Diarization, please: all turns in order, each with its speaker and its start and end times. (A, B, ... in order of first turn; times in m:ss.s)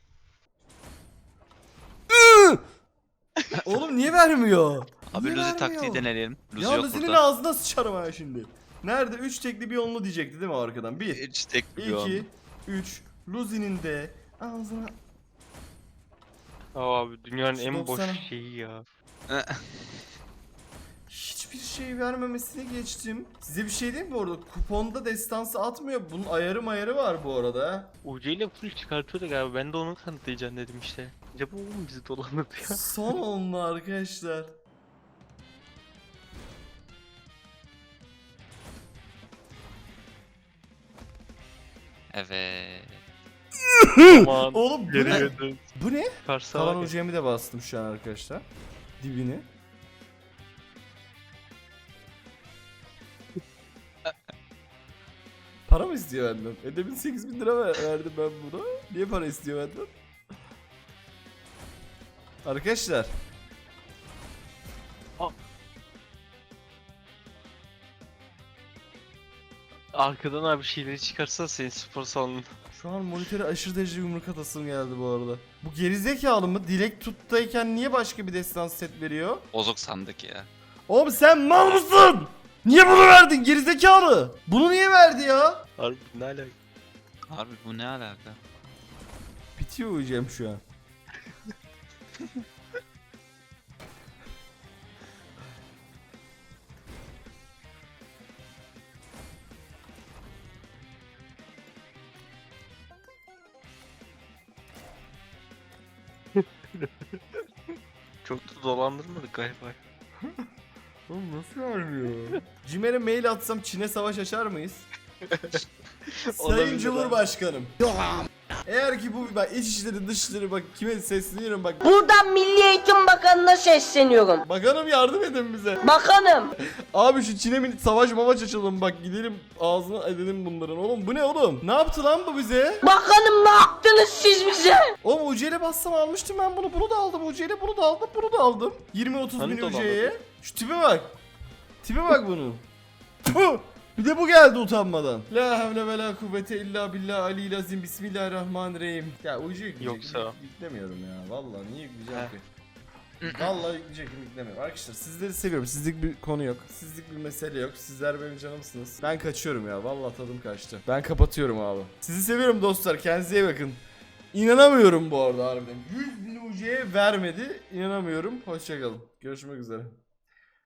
0:02.1-0:02.6 A
0:03.7-0:11.2 A
0:05.1-0:07.2 B
0:11.1-0:12.2 B
0:11.8-0:15.0 A
0:16.8-0:18.8 C
0:17.5-0:18.3 A
0:19.3-0:19.6 B
0:21.1-0:27.9 A
0:28.0-0:32.9 C
0:32.6-0:34.5 A
0:42.1-0:43.0 B
0:43.7-0:48.4 A
0:44.0-0:45.7 C
0:46.2-0:46.9 C
0:49.0-0:49.4 A
0:55.7-0:59.9 A
1:02.4-1:03.1 A
1:09.9-1:12.5 C
1:12.7-1:19.4 A
1:19.5-1:20.5 B
1:20.9-1:25.6 A
1:25.8-1:26.5 C
1:27.3-1:28.4 B
1:29.6-1:30.6 A
1:46.4-1:47.4 C
1:48.2-1:49.8 C
1:51.1-1:54.9 A
1:55.3-1:55.6 C
1:56.3-1:57.3 C
1:56.4-1:57.8 A
1:58.7-2:01.9 A
2:01.8-2:04.4 D
2:04.4-2:05.9 A
2:05.8-2:06.5 D
2:06.9-2:12.8 A
2:12.8-2:14.9 D
2:15.0-2:21.1 A
2:19.4-2:20.1 C
2:21.8-2:22.6 A
2:23.2-2:32.4 A
2:29.8-2:30.4 C
2:33.2-2:33.5 B
2:33.2-2:43.8 A
2:44.3-2:49.9 A